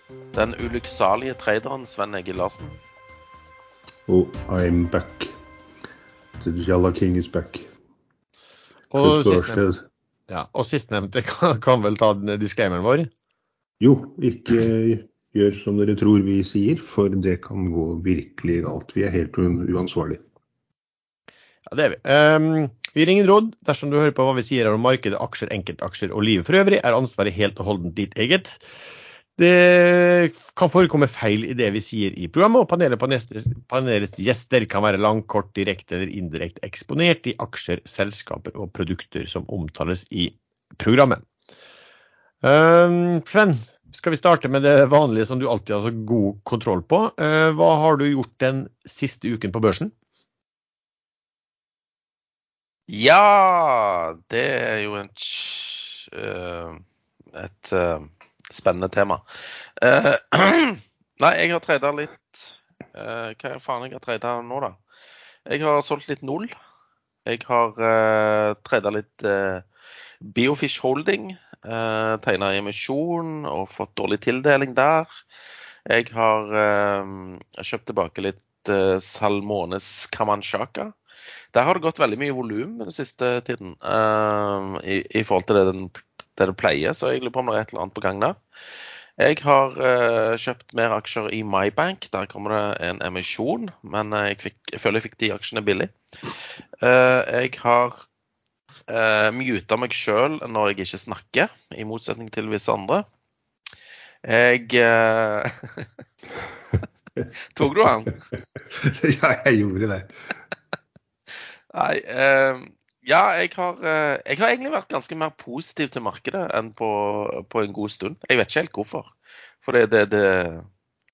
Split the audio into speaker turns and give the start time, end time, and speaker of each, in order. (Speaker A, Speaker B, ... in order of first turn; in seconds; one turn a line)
Speaker A: 0.3-2.8
Speaker B: 4.1-5.3
Speaker B: 6.4-7.7
Speaker C: 8.9-9.6
Speaker B: 9.0-9.8
Speaker C: 10.3-13.1
Speaker B: 13.8-20.2
Speaker C: 21.7-28.6
Speaker C: 29.4-41.2
Speaker C: 42.4-49.9
Speaker A: 52.9-56.8
Speaker A: 57.3-59.2
Speaker A: 59.8-64.8
Speaker A: 65.5-66.5
Speaker A: 67.2-69.6
Speaker A: 70.2-75.2
Speaker A: 75.8-80.9
Speaker A: 81.5-88.4
Speaker A: 89.2-95.9
Speaker A: 96.8-98.0
Speaker A: 98.9-103.0
Speaker A: 104.2-105.9
Speaker A: 107.5-108.2
Speaker B: 108.6-110.1
Speaker A: 111.7-119.1
Speaker A: 119.6-120.7